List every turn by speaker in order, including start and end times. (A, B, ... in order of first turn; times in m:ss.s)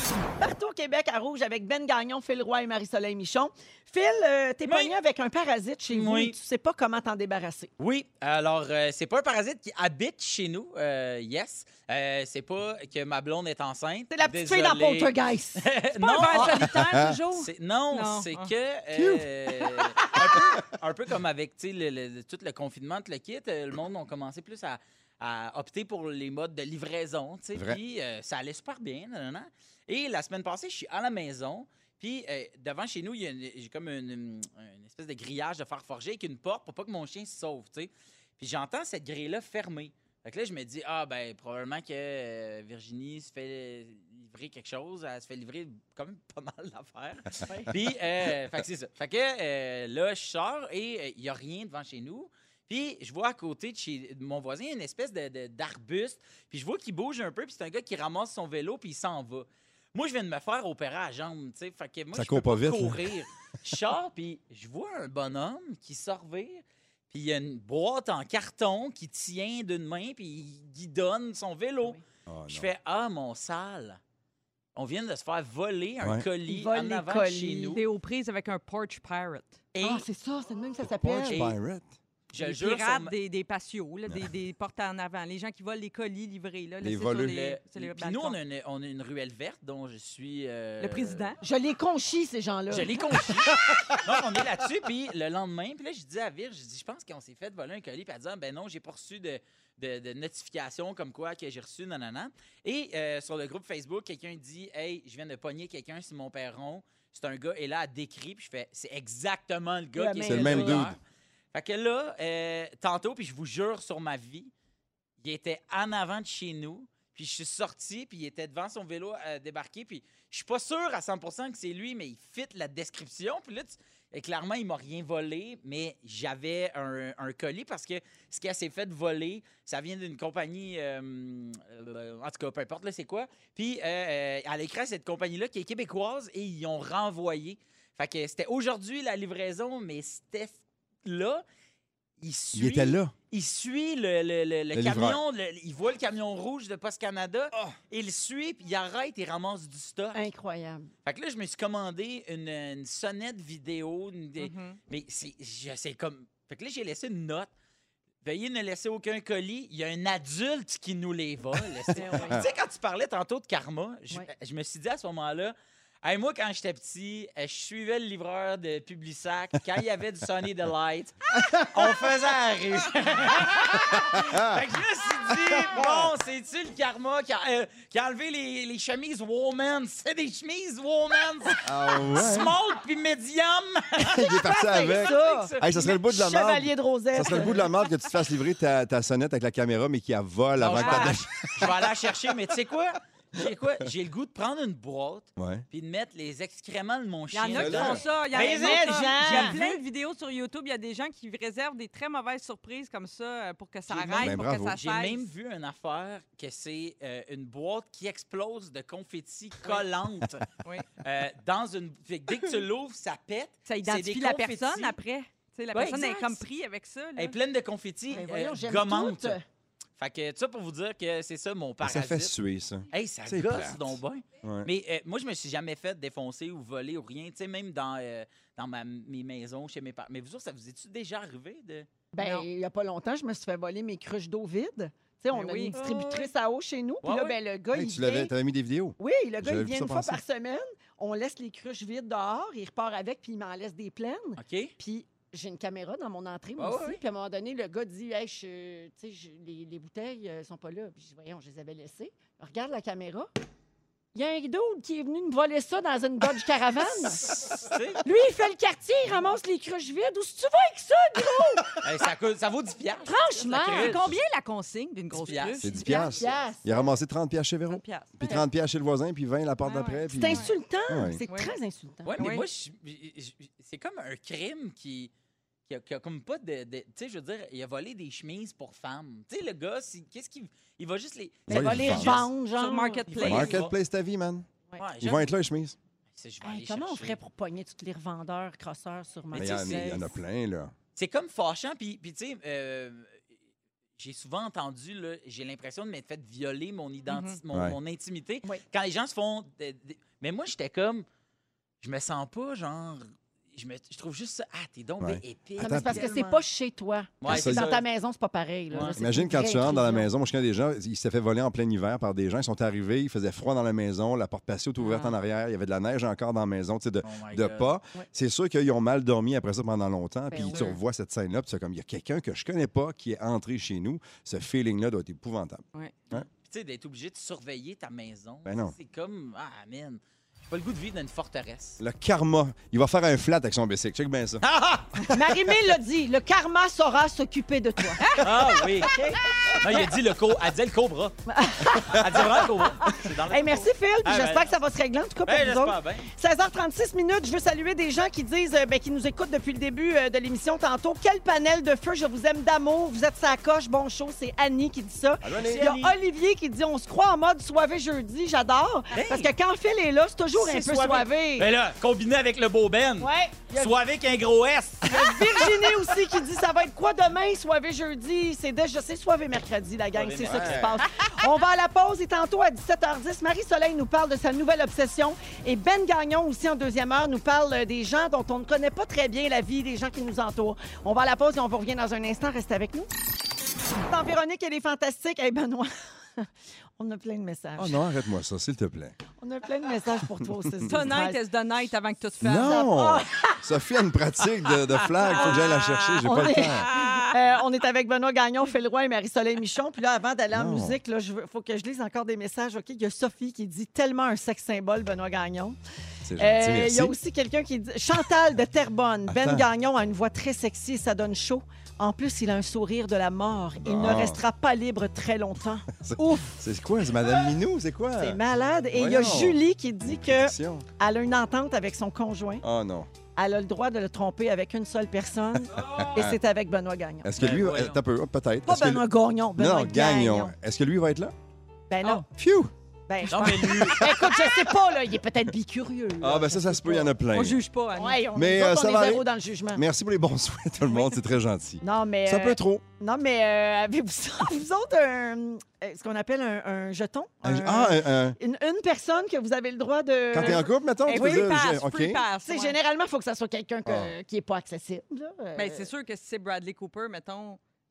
0:00.4-0:07.7 A
0:04.7-0:04.9 B
0:05.9-0:06.3 B
0:07.8-0:16.8 B
0:14.1-0:15.7 A
0:15.9-0:18.5 C
0:16.3-0:16.5 A
0:16.8-0:17.2 D
0:17.3-1:14.0 B
0:18.9-0:19.3 D
1:02.1-1:03.1 D
1:12.3-1:12.7 D
1:14.7-1:17.8 B
1:16.4-1:17.8 A
1:17.7-1:19.6 C
1:19.7-1:20.0 B
1:19.8-1:21.4 A
1:20.8-1:21.9 D
1:21.3-1:21.5 B
1:22.3-1:23.1 B
1:22.4-1:28.4 C
1:26.8-1:27.4 D
1:27.2-1:31.4 B
1:30.8-1:31.4 C
1:31.4-1:33.5 A
1:32.7-1:51.0 B
1:49.9-1:50.9 A
1:50.2-1:51.0 D
1:51.5-1:54.5 B
1:55.2-2:21.4 B
2:22.2-2:30.3 B
2:22.5-2:23.1 D
2:24.7-2:25.2 D
2:30.1-2:30.9 A
2:31.0-2:37.5 B
2:34.4-2:34.8 C
2:38.2-3:05.9 B
2:41.9-2:42.4 D
2:41.9-2:42.4 C
2:51.4-2:51.9 D
2:54.0-2:54.6 D
2:55.3-2:56.1 D
3:01.6-3:02.5 D
3:04.0-3:11.8 D
3:04.7-3:07.7 A
3:07.3-3:07.6 B
3:10.6-3:19.8 B
3:15.4-3:15.6 D
3:17.3-3:25.2 C
3:17.5-3:18.0 D
3:18.3-3:19.6 A
3:23.9-3:30.4 B
3:24.2-3:24.8 D
3:31.0-3:35.0 B
3:33.6-3:37.3 C
3:35.7-3:36.4 B
3:37.2-3:39.4 B
3:38.1-3:39.4 A
3:40.0-3:42.3 B
3:41.8-3:44.7 D
3:42.9-3:51.9 B
3:52.1-3:58.3 A
3:52.2-3:52.4 C
3:55.3-3:55.8 C
3:55.7-3:56.3 B
3:57.0-3:57.4 B
3:57.7-4:00.2 D
3:59.0-4:13.3 A
4:04.4-4:04.7 B
4:06.6-4:07.0 B
4:14.1-4:17.4 A
4:16.8-4:18.0 B
4:18.0-4:21.7 A
4:21.8-4:24.2 B
4:23.0-4:24.0 A
4:23.6-4:26.3 C
4:25.1-4:25.7 B
4:25.6-4:31.2 D
4:25.7-4:26.9 A
4:27.7-4:28.4 C
4:29.6-4:30.5 C
4:30.1-4:32.2 A
4:31.3-4:31.6 C
4:32.0-4:35.1 B
4:32.2-4:32.4 C
4:35.7-4:42.3 B
4:41.5-4:43.5 A
4:41.5-4:42.2 D
4:42.5-4:43.6 C
4:43.1-4:43.7 B
4:43.2-4:44.5 D
4:44.8-4:45.3 B
4:45.0-4:45.8 D
4:46.2-4:47.2 B
4:46.4-4:50.1 A
4:49.3-4:50.0 B
4:49.3-4:50.7 D
4:51.0-4:53.2 B
4:54.0-5:01.0 B
4:57.1-4:57.4 C
4:57.5-4:57.8 D
5:01.8-5:06.4 B
5:05.0-5:06.1 D
5:05.6-5:10.1 A
5:07.2-5:07.8 B
5:07.2-5:07.7 D
5:09.0-5:26.2 D
5:14.8-5:15.1 C
5:17.0-5:17.7 B
5:20.3-5:20.6 A
5:20.4-5:20.8 C
5:26.4-5:31.8 B
5:28.4-5:28.7 D
5:31.8-5:34.4 D
5:34.4-5:35.1 B
5:35.1-5:38.1 A
5:38.0-5:38.7 C
5:38.2-5:39.0 B
5:38.8-5:39.9 A
5:39.6-5:41.2 B
5:41.3-6:01.5 A
5:41.7-5:44.6 B
5:45.2-5:46.1 B
5:55.2-5:55.6 D
5:55.4-5:55.9 B
5:58.9-5:59.3 B
6:00.3-6:05.4 B
6:03.0-6:03.7 A
6:04.8-6:22.9 A
6:09.9-6:10.8 B
6:10.2-6:10.8 D
6:23.9-6:26.3 A
6:26.8-6:27.8 A
6:27.6-6:29.0 D
6:29.2-6:31.2 A
6:30.2-6:30.7 D
6:30.6-6:32.7 C
6:32.2-6:36.7 D
6:32.4-6:33.4 A
6:35.1-6:35.4 A
6:35.5-6:36.0 B
6:36.0-6:45.6 A
6:36.5-6:37.1 C
6:40.3-6:40.8 D
6:46.0-6:47.0 D
6:46.2-6:56.4 A
6:49.1-6:49.4 D
6:53.6-6:54.2 D
6:55.7-6:58.2 D
6:58.0-7:02.4 A
6:58.7-7:00.6 D
7:02.4-7:02.9 D
7:03.2-7:07.1 A
7:05.6-7:06.2 D
7:07.0-7:11.1 D
7:07.2-7:07.8 B
7:08.4-7:10.3 A
7:11.7-7:12.0 A
7:12.0-7:12.5 D
7:12.9-7:16.9 A
7:13.1-7:13.9 B
7:13.1-7:14.6 D
7:16.0-7:17.4 D
7:17.1-7:18.0 C
7:17.7-7:19.6 A
7:18.1-7:22.6 D
7:21.6-7:31.3 A
7:27.2-7:28.2 D
7:30.1-7:32.0 D
7:30.1-7:32.6 C
7:32.2-7:35.7 A
7:33.6-7:33.9 D
7:35.4-7:37.4 C